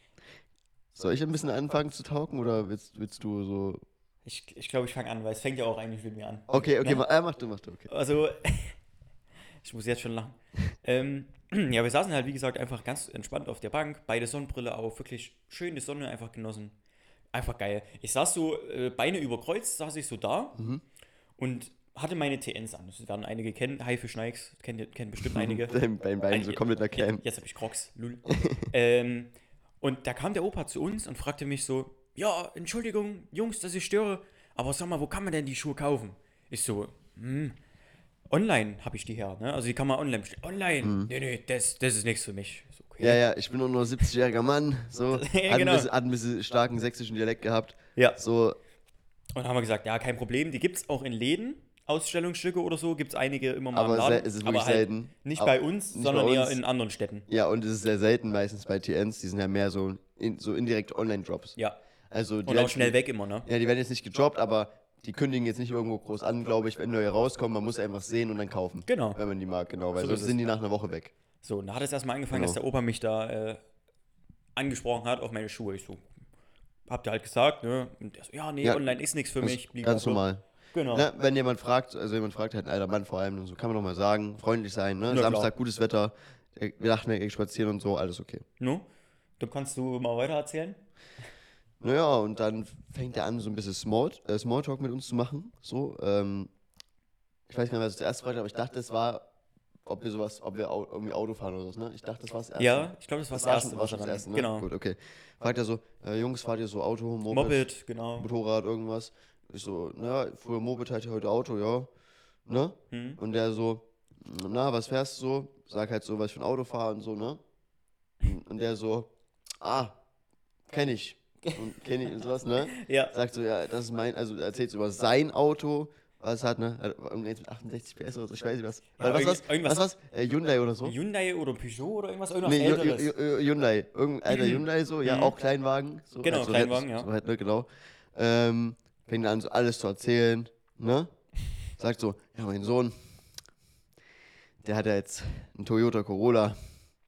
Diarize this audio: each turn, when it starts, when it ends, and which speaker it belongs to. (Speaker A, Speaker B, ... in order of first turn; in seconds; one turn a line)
Speaker A: 0.9-3.8
Speaker B: 4.2-7.0
Speaker A: 6.5-7.9
Speaker B: 7.9-8.8
Speaker B: 9.6-16.7
Speaker B: 17.3-20.6
Speaker A: 20.6-20.8
Speaker B: 21.4-25.7
Speaker A: 25.2-27.2
Speaker B: 26.3-37.6
Speaker A: 28.3-28.7
Speaker B: 38.3-43.2
Speaker A: 40.8-41.1
Speaker A: 43.0-48.6
Speaker B: 45.1-45.9
Speaker B: 49.3-57.3
Speaker A: 53.7-56.6
Speaker A: 57.3-61.6
Speaker A: 62.1-71.1
Speaker B: 62.5-63.5
Speaker B: 68.8-69.2
Speaker B: 70.0-70.4
Speaker B: 71.4-73.6
Speaker A: 72.3-72.6
Speaker B: 74.5-76.1
Speaker B: 76.9-81.1
Speaker A: 78.6-78.9
Speaker A: 79.4-80.4
Speaker A: 80.9-88.4
Speaker B: 85.1-85.5
Speaker B: 88.6-88.9
Speaker B: 89.4-90.8
Speaker A: 91.8-96.5
Speaker A: 97.5-99.2
Speaker A: 99.8-107.7
Speaker B: 102.6-104.7
Speaker B: 107.3-108.3
Speaker A: 108.2-111.9
Speaker A: 112.5-117.4
Speaker B: 112.9-113.2
Speaker A: 118.2-119.1
Speaker A: 119.6-120.0
Speaker A: 120.7-130.9
Speaker B: 122.7-123.1
Speaker B: 129.0-129.8
Speaker B: 130.8-133.1
Speaker A: 132.4-141.1
Speaker B: 134.3-135.3
Speaker B: 136.2-137.1
Speaker A: 141.8-142.9
Speaker A: 144.6-146.6